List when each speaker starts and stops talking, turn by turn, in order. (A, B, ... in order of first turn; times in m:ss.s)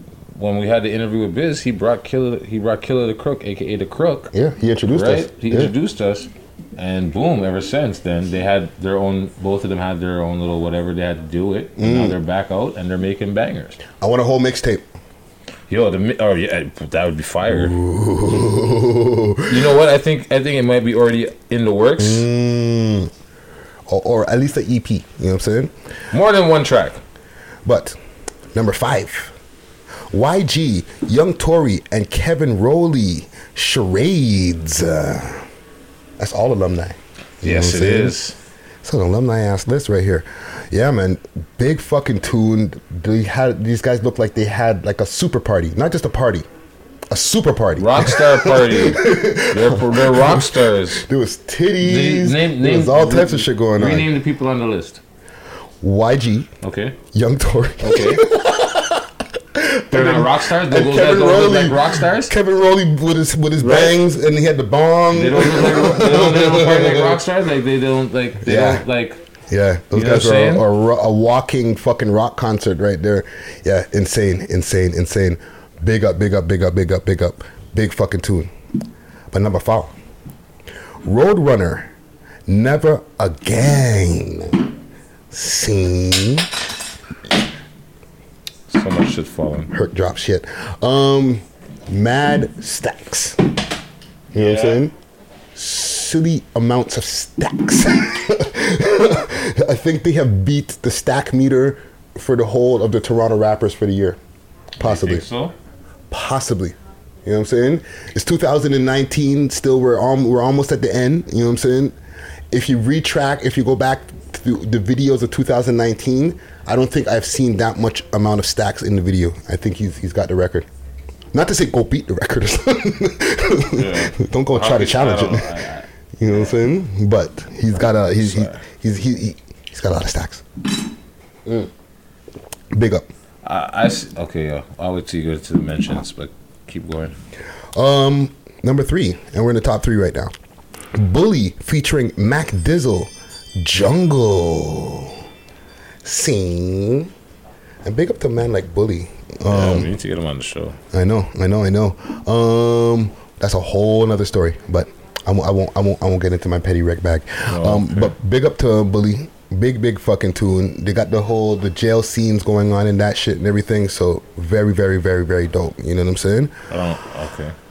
0:00.3-0:04.3 A
0:04.3-0:05.7 B
0:04.9-0:13.8 A
0:11.8-0:12.2 B
0:14.0-0:14.9 B
0:15.7-0:17.7 A
0:17.4-0:19.7 B
0:19.5-0:22.3 A
0:22.0-0:23.1 B
0:23.9-0:25.7 B
0:26.1-0:27.0 A
0:27.6-0:28.0 B
0:28.5-0:29.3 B
0:30.1-0:35.4 B
0:36.2-0:38.2 B
0:37.4-0:38.4 A
0:38.8-0:46.5 B
0:47.1-0:54.1 B
0:47.8-0:51.0 A
0:51.8-0:55.0 A
0:55.8-0:56.5 B
0:56.6-0:57.0 A
0:57.1-0:59.0 B
0:57.8-0:58.2 A
0:59.5-1:07.2 B
0:59.9-1:02.3 A
1:03.6-1:04.0 A
1:05.1-1:09.2 A
1:08.4-1:08.8 B
1:09.5-1:18.5 B
1:09.9-1:10.6 A
1:19.3-1:19.9 B
1:21.0-1:21.9 B
1:22.5-1:24.6 B
1:25.3-1:26.5 B
1:28.7-1:29.7 A
1:29.7-1:33.4 B
1:34.3-1:34.9 B
1:34.4-1:34.8 A
1:35.5-1:44.2 B
1:44.8-1:45.3 B
1:44.8-1:45.5 A
1:46.1-1:52.0 B
1:52.5-2:00.7 B
2:01.3-2:05.5 B
2:03.8-2:06.5 A
2:06.2-2:10.4 B
2:08.2-2:08.6 A
2:12.7-2:13.0 B
2:13.4-2:17.1 A
2:17.7-2:20.3 B
2:20.9-2:25.2 B
2:26.0-2:27.1 B
2:27.8-2:29.9 B
2:29.5-2:30.8 A
2:30.9-2:46.5 B
2:37.5-2:38.1 A
2:46.7-2:47.5 A